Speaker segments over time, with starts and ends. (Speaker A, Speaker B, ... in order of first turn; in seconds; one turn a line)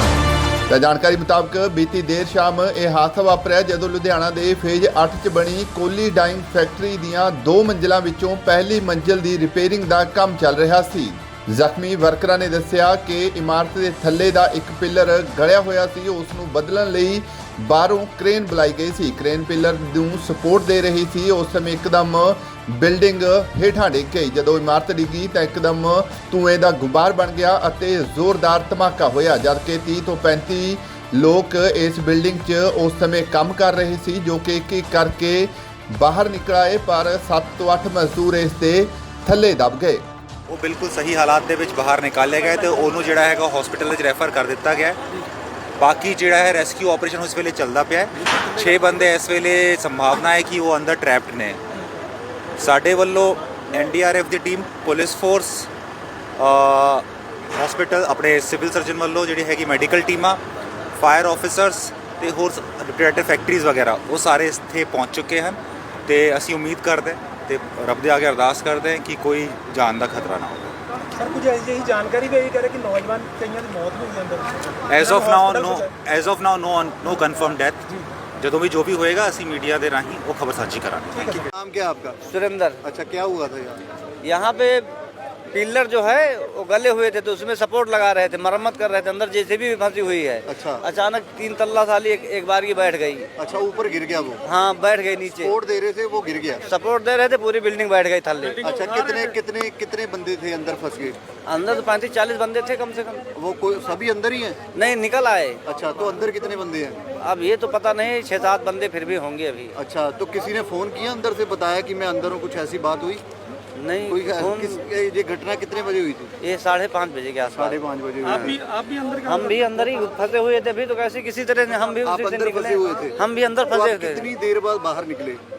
Speaker A: 0.7-40.0
Speaker B: 40.5-45.0
Speaker B: 45.8-51.6
Speaker C: 48.3-49.0
Speaker B: 52.6-55.7
Speaker B: 56.4-60.4
Speaker B: 61.0-70.8
Speaker D: 71.2-74.5
Speaker B: 74.9-81.5
Speaker D: 75.0-75.8
Speaker C: 81.5-82.2
Speaker E: 82.3-82.8
Speaker C: 82.8-83.8
Speaker E: 84.2-85.0
Speaker E: 85.5-93.3
Speaker C: 90.5-90.8
Speaker C: 93.4-94.4
Speaker E: 94.4-95.5
Speaker C: 95.4-96.6
Speaker E: 96.7-98.7
Speaker C: 98.6-101.2
Speaker E: 101.5-103.2
Speaker C: 103.3-104.6
Speaker E: 104.7-105.6
Speaker C: 105.6-107.0
Speaker E: 107.2-109.8
Speaker C: 109.8-113.2
Speaker E: 113.7-114.8
Speaker C: 114.1-116.3
Speaker E: 116.4-118.5
Speaker C: 117.5-118.6
Speaker D: 118.7-119.2
Speaker E: 119.2-124.3
Speaker C: 121.9-123.2
Speaker C: 123.7-125.4